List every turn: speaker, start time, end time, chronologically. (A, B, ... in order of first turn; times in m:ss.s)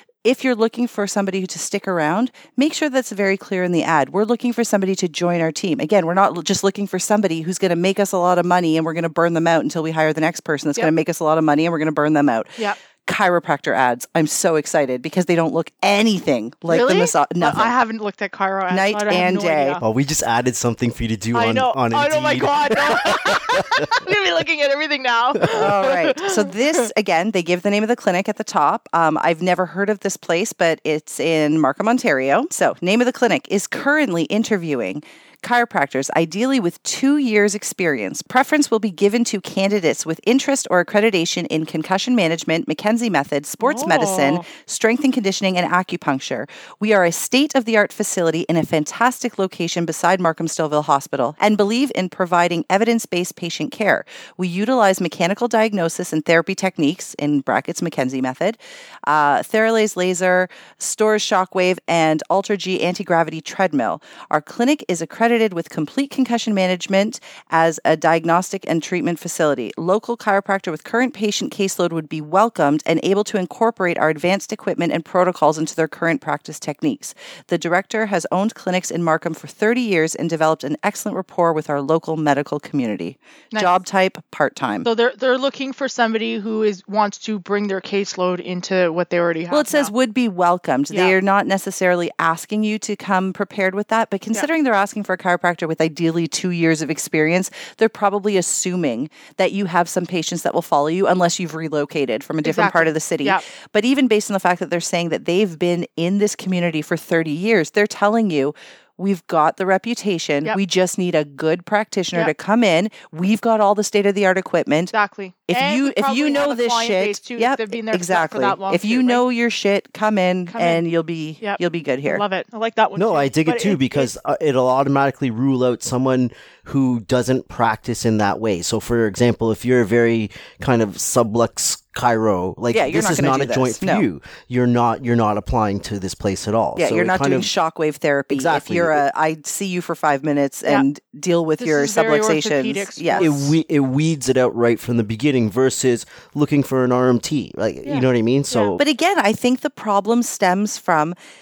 0:00.2-0:17.7 A
0:16.7-0:19.8 B
0:18.7-0:19.8 A
0:19.8-0:24.0 C
0:21.3-0:26.9 B
0:25.5-1:24.9 A
0:43.6-0:44.4 B
1:23.5-1:23.8 B
1:24.8-1:29.9 B
1:29.5-1:54.9 A
1:30.9-1:31.2 B
1:42.4-1:43.4 B
1:54.9-1:59.2 B
1:55.5-2:02.2 A
2:00.5-2:00.8 B
2:01.4-2:04.1 B
2:03.0-2:17.5 C
2:12.7-2:14.0 A
2:16.8-2:23.3 A
2:18.3-2:19.0 C
2:21.6-2:23.5 B
2:23.2-2:28.8 C
2:27.8-2:28.7 B
2:28.8-2:31.1 A